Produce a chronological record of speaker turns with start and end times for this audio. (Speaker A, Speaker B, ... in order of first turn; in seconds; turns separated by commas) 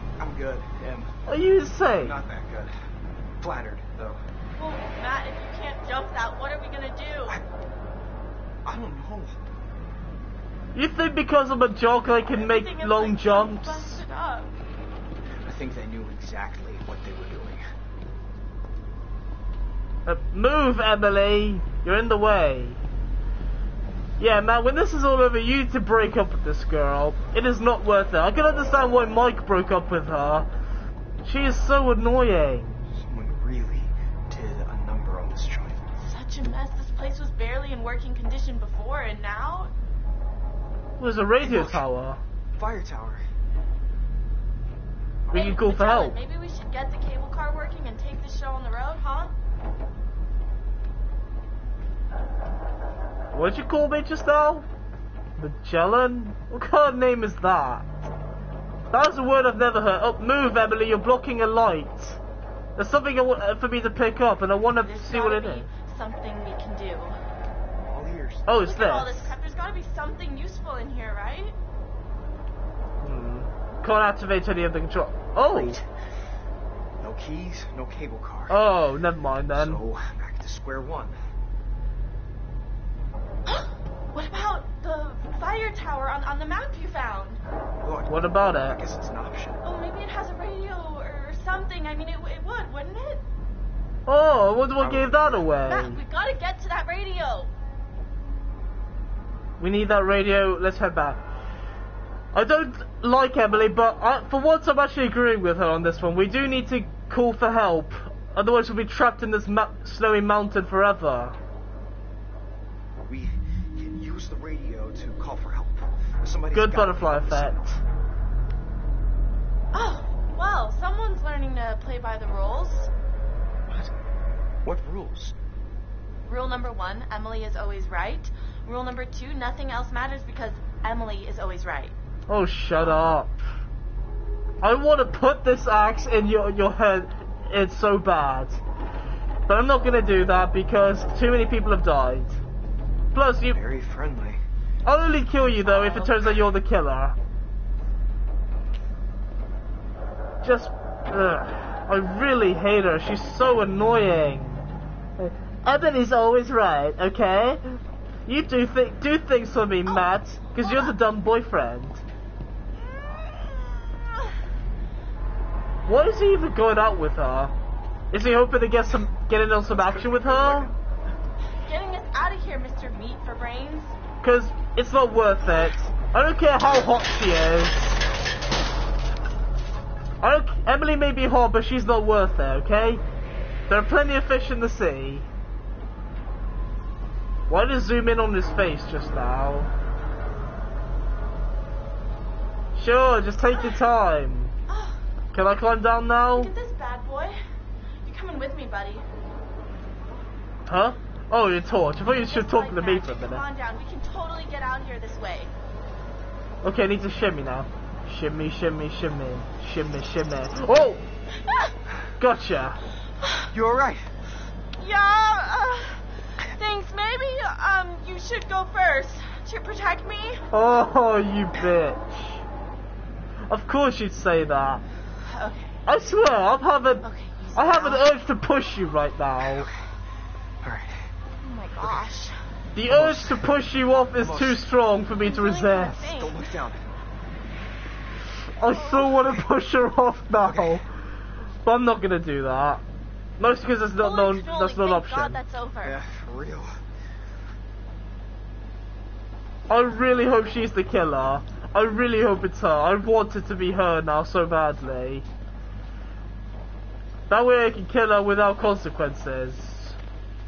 Speaker A: 0.2-1.1, Speaker B: 1.3-2.2, Speaker A: 1.9-2.7, Speaker A: 3.4-4.2, Speaker C: 4.6-7.4, Speaker A: 8.7-9.4, Speaker B: 10.8-14.0, Speaker C: 12.2-14.5, Speaker A: 15.4-17.6, Speaker B: 20.1-22.8, Speaker B: 24.2-30.5, Speaker B: 31.2-32.8, Speaker A: 32.9-35.9, Speaker C: 36.0-39.7, Speaker B: 41.0-42.2, Speaker A: 41.4-41.8, Speaker A: 42.5-43.2, Speaker C: 45.3-49.3, Speaker B: 45.3-46.2, Speaker B: 53.3-54.7, Speaker B: 55.4-57.9, Speaker B: 58.9-62.2, Speaker B: 62.8-65.7, Speaker C: 64.8-67.2, Speaker A: 67.8-68.5, Speaker B: 68.5-69.3, Speaker C: 68.6-71.5, Speaker B: 73.0-75.8, Speaker A: 75.5-75.8, Speaker A: 77.0-78.6, Speaker B: 78.5-79.8, Speaker A: 79.5-81.2, Speaker C: 83.5-87.4, Speaker A: 87.8-89.6, Speaker B: 88.1-88.8, Speaker C: 89.6-93.2, Speaker B: 94.1-96.0, Speaker A: 94.8-95.8, Speaker C: 95.7-97.5, Speaker B: 99.6-101.2, Speaker B: 102.3-111.4, Speaker A: 113.0-117.8, Speaker B: 116.5-117.8, Speaker C: 119.7-122.9, Speaker A: 124.6-125.3, Speaker C: 126.3-131.9, Speaker B: 132.3-133.4, Speaker B: 134.6-138.6, Speaker B: 139.5-142.4, Speaker B: 143.1-143.6, Speaker A: 143.5-144.4, Speaker B: 144.8-147.2, Speaker A: 145.8-146.1, Speaker B: 150.4-154.7, Speaker B: 155.2-162.0, Speaker C: 162.8-164.2, Speaker B: 165.9-167.5, Speaker B: 168.1-170.7, Speaker A: 169.7-170.8, Speaker C: 171.7-173.9, Speaker B: 174.2-178.0, Speaker B: 180.2-183.0, Speaker B: 183.7-185.3, Speaker B: 187.5-189.7, Speaker B: 192.8-194.5, Speaker C: 194.7-195.0, Speaker B: 195.3-196.5, Speaker C: 196.3-197.4, Speaker C: 198.1-199.1, Speaker B: 200.7-203.4, Speaker C: 202.3-205.5, Speaker B: 206.6-211.0, Speaker B: 212.2-212.8, Speaker A: 213.5-214.1, Speaker C: 214.8-216.0, Speaker C: 216.6-220.4, Speaker B: 220.5-222.4, Speaker B: 223.5-224.8, Speaker C: 225.3-225.8, Speaker B: 225.9-229.7, Speaker C: 227.0-228.1, Speaker A: 229.4-229.8, Speaker A: 230.6-231.1, Speaker C: 231.4-232.4, Speaker B: 232.8-236.1, Speaker A: 232.9-233.6, Speaker A: 234.2-234.6, Speaker C: 235.2-236.4, Speaker A: 235.9-236.8, Speaker B: 238.6-240.9, Speaker A: 240.4-240.9, Speaker B: 241.7-242.8, Speaker B: 243.4-245.4, Speaker C: 244.0-246.0, Speaker A: 245.8-246.8, Speaker B: 249.7-255.3, Speaker B: 257.3-260.0